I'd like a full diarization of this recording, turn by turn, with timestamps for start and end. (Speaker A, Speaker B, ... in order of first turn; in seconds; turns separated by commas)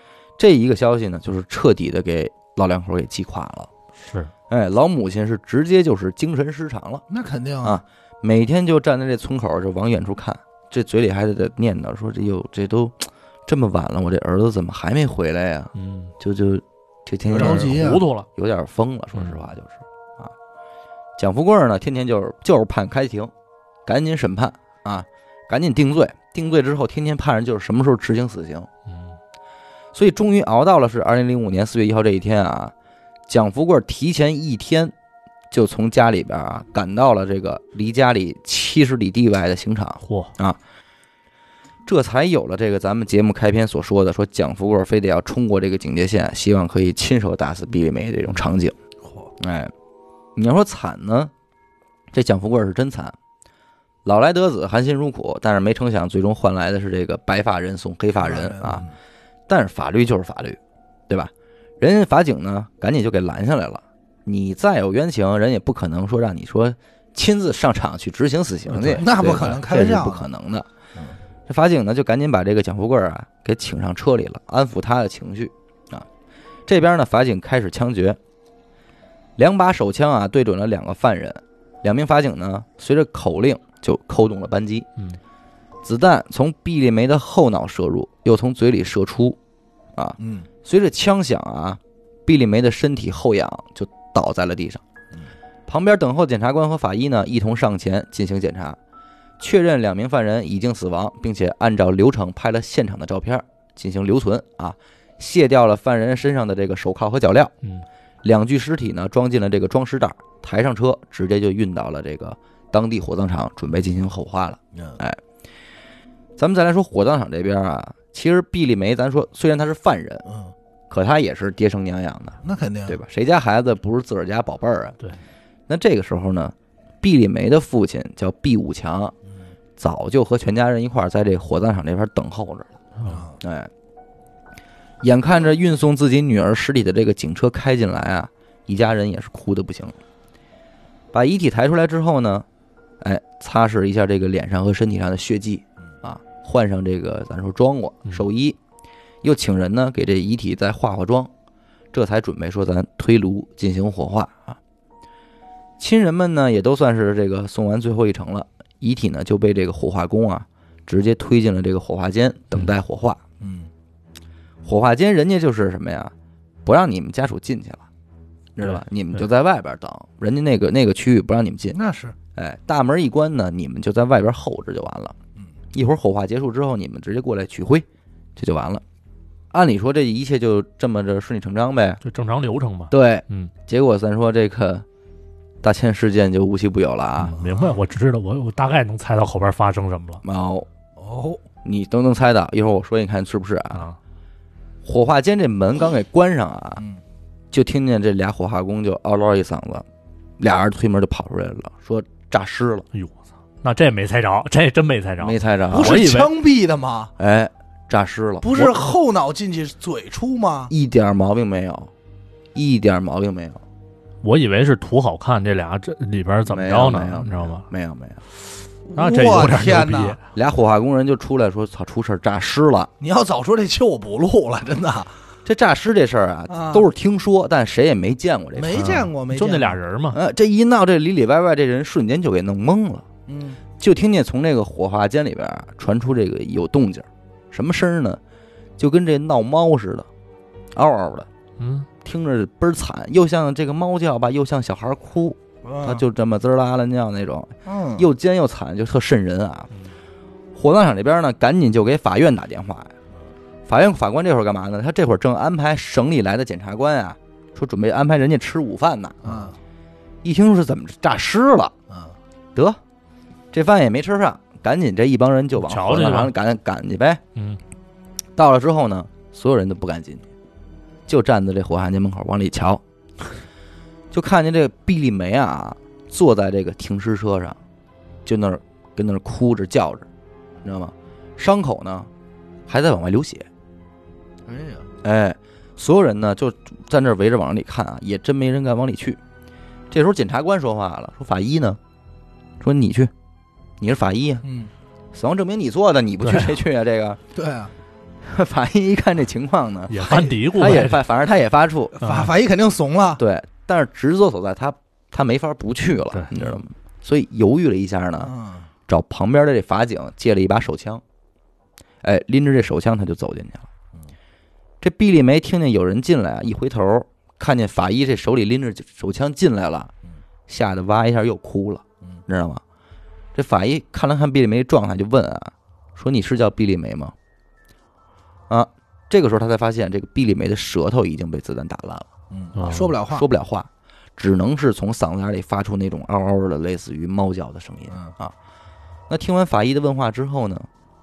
Speaker A: 0.4-3.7, Speaker B: 4.0-4.3, Speaker A: 4.5-7.0, Speaker C: 7.1-7.8, Speaker A: 7.6-20.3, Speaker B: 15.8-16.1, Speaker C: 17.3-18.1, Speaker B: 17.3-18.3, Speaker A: 21.2-23.3, Speaker A: 23.9-28.7, Speaker B: 28.9-29.2, Speaker A: 29.9-32.7, Speaker A: 33.3-34.9, Speaker A: 35.5-40.6, Speaker B: 40.0-40.3, Speaker A: 41.9-48.8, Speaker C: 49.0-49.3, Speaker A: 49.4-49.7, Speaker A: 50.4-51.3, Speaker A: 52.1-53.1, Speaker A: 54.0-58.9, Speaker C: 58.2-58.9, Speaker A: 59.5-70.7, Speaker B: 68.7-69.5, Speaker C: 68.9-70.3, Speaker A: 71.5-76.1, Speaker A: 76.7-78.2, Speaker A: 79.4-84.9, Speaker A: 85.8-89.4, Speaker A: 90.0-94.8, Speaker C: 90.2-90.5, Speaker A: 95.7-98.8, Speaker A: 99.4-107.5, Speaker A: 108.2-115.2, Speaker C: 114.7-115.0, Speaker A: 116.4-120.2, Speaker C: 120.3-120.5, Speaker A: 120.9-125.0, Speaker C: 122.4-123.0, Speaker A: 125.7-129.1, Speaker A: 129.8-132.7, Speaker B: 133.0-133.3, Speaker C: 133.1-133.4, Speaker A: 133.4-133.7, Speaker A: 135.0-140.0, Speaker A: 141.1-142.5, Speaker A: 143.0-148.6, Speaker A: 149.2-151.3, Speaker A: 151.9-154.6, Speaker A: 155.8-163.2, Speaker C: 163.4-163.7, Speaker A: 164.7-166.1, Speaker A: 166.7-167.8, Speaker A: 168.6-171.8, Speaker C: 171.7-172.2, Speaker A: 172.3-175.2, Speaker A: 175.7-177.9, Speaker A: 178.4-178.8, Speaker A: 179.5-182.0, Speaker B: 182.0-183.5, Speaker A: 182.9-184.8, Speaker A: 185.6-187.4, Speaker B: 187.2-190.2, Speaker C: 187.3-187.8, Speaker A: 190.2-190.7, Speaker C: 191.0-191.4, Speaker A: 191.6-193.9, Speaker A: 194.8-196.8, Speaker A: 197.5-199.8, Speaker A: 200.4-202.9, Speaker B: 202.9-206.3, Speaker A: 205.2-206.0, Speaker C: 205.7-207.1, Speaker A: 207.2-208.6, Speaker C: 208.4-210.7, Speaker A: 210.7-211.9, Speaker A: 212.6-213.6, Speaker B: 214.2-217.7, Speaker A: 216.5-218.2, Speaker C: 218.9-220.2, Speaker B: 218.9-220.2, Speaker A: 220.3-222.9, Speaker C: 223.0-225.2, Speaker A: 225.4-228.9, Speaker C: 226.5-226.9, Speaker C: 228.6-229.8, Speaker B: 228.7-230.2, Speaker A: 230.1-233.1, Speaker C: 233.3-233.6, Speaker A: 233.8-238.2, Speaker A: 238.8-240.1, Speaker A: 240.8-241.3, Speaker B: 241.6-241.9, Speaker A: 242.0-249.7, Speaker C: 245.6-246.0, Speaker C: 247.7-248.1, Speaker A: 250.6-252.9, Speaker A: 253.7-259.5, Speaker C: 259.2-259.6, Speaker A: 260.2-261.7, Speaker C: 261.9-262.2, Speaker A: 263.5-267.2, Speaker B: 265.6-266.3, Speaker B: 267.4-267.6, Speaker A: 268.4-270.2, Speaker A: 271.1-272.8, Speaker A: 274.1-277.6, Speaker A: 278.2-280.1, Speaker A: 280.6-282.1, Speaker A: 282.7-283.5, Speaker C: 284.5-284.9, Speaker A: 285.0-289.2, Speaker A: 289.9-291.8, Speaker A: 292.6-293.1, Speaker A: 293.8-294.4, Speaker C: 294.4-294.7, Speaker A: 295.1-297.2, Speaker B: 296.2-296.5, Speaker C: 297.3-297.7, Speaker A: 298.2-302.0, Speaker B: 299.9-301.0, Speaker C: 300.0-300.4, Speaker C: 302.0-303.2, Speaker B: 302.0-302.3, Speaker A: 303.2-308.3, Speaker C: 308.2-308.7, Speaker A: 308.9-311.0, Speaker A: 312.0-313.7, Speaker A: 314.8-319.9, Speaker A: 320.5-322.6, Speaker A: 323.4-327.1, Speaker A: 328.5-332.1, Speaker C: 332.3-333.3, Speaker B: 332.6-333.0, Speaker A: 333.1-338.3, Speaker A: 339.1-340.7